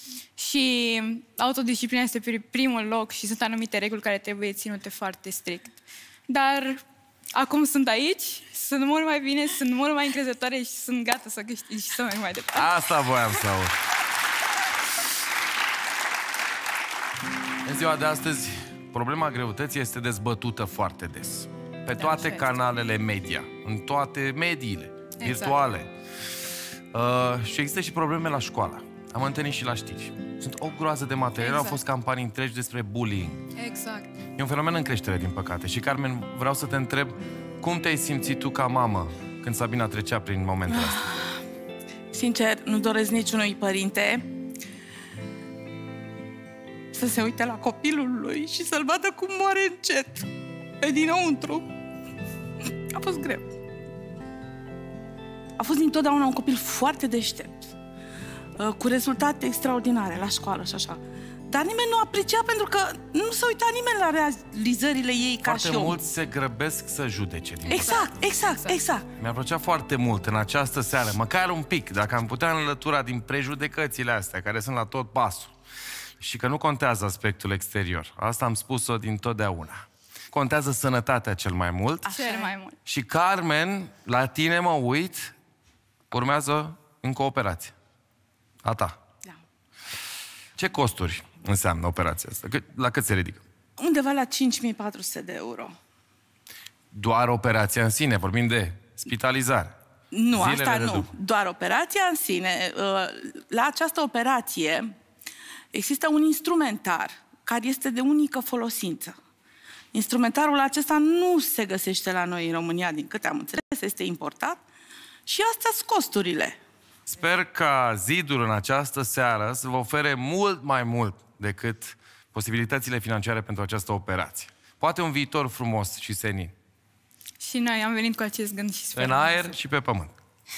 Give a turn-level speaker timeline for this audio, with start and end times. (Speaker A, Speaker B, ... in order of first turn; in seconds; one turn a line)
Speaker A: 0.4-6.8
Speaker A: 7.3-12.7
Speaker B: 12.5-13.8
Speaker B: 17.6-25.9
Speaker A: 22.0-22.6
Speaker A: 25.2-25.6
Speaker B: 26.9-33.5
Speaker A: 31.4-31.8
Speaker A: 33.6-34.1
Speaker B: 34.4-41.1
Speaker C: 40.7-41.3
Speaker C: 42.1-44.3
Speaker C: 46.9-50.3
Speaker C: 50.8-51.7
Speaker C: 52.9-53.5
Speaker C: 55.6-57.7
Speaker C: 58.6-66.0
Speaker B: 65.5-68.1
Speaker A: 67.7-68.8
Speaker C: 67.7-69.1
Speaker B: 69.2-75.5
Speaker B: 76.2-82.1
Speaker C: 82.0-82.5
Speaker A: 82.1-82.8
Speaker B: 82.9-85.3
Speaker B: 86.1-87.7
Speaker B: 88.6-89.0
Speaker B: 90.6-93.4
Speaker C: 93.8-95.7
Speaker B: 96.9-99.8
Speaker C: 100.1-104.9
Speaker B: 100.3-101.1
Speaker C: 105.7-109.2
Speaker C: 109.9-114.6
Speaker C: 115.3-116.6
Speaker B: 117.1-126.5
Speaker A: 127.4-129.6
Speaker B: 128.9-130.1